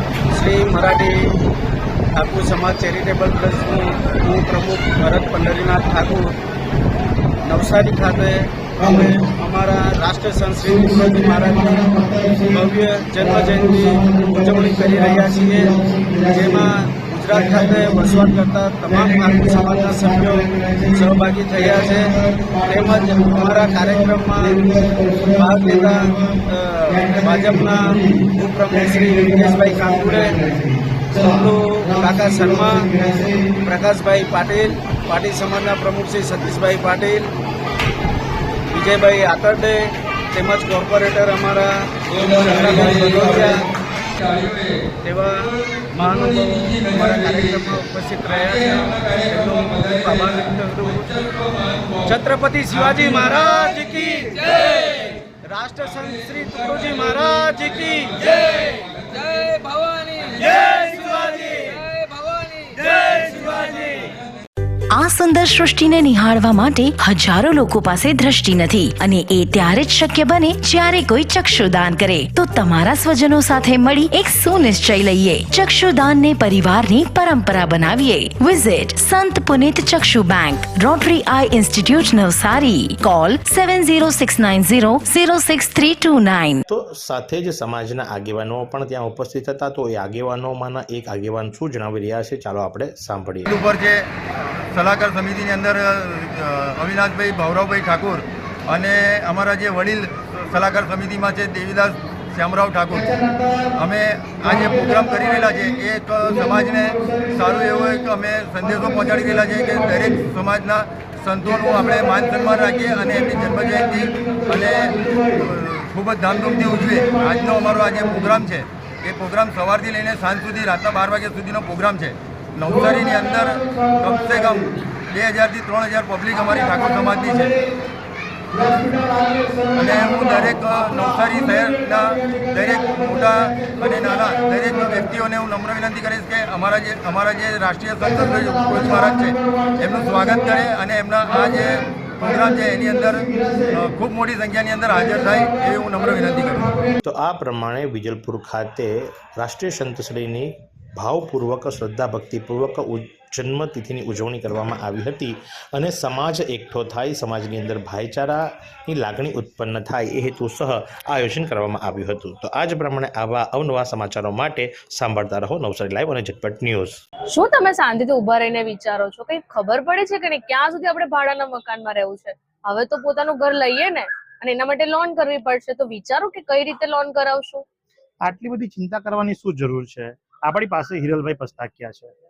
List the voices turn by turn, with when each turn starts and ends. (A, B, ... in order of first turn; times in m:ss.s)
0:00.3-0:01.3 A
0:02.2-0:06.3 A
0:07.4-0:24.8 A
0:11.7-0:12.3 B
0:13.2-0:16.5 B
0:17.3-0:18.0 B
0:19.9-0:20.4 B
0:21.6-0:22.0 B
0:23.8-0:24.1 B
0:25.4-0:33.1 A
0:27.2-0:27.6 B
0:29.1-0:29.6 B
0:33.6-0:37.3 A
0:38.7-0:43.6 A
0:44.2-0:44.8 C
0:45.0-0:51.1 A
0:51.2-0:52.1 C
0:52.0-0:58.7 A
1:00.4-1:01.8 A
1:02.8-1:04.0 A
1:04.9-1:26.6 D
1:26.7-1:33.5 E
1:33.5-1:34.0 C
1:34.7-2:07.6 C
2:08.6-2:26.8 C
2:27.0-2:47.0 E
2:47.3-2:57.6 F
2:58.2-3:02.1 B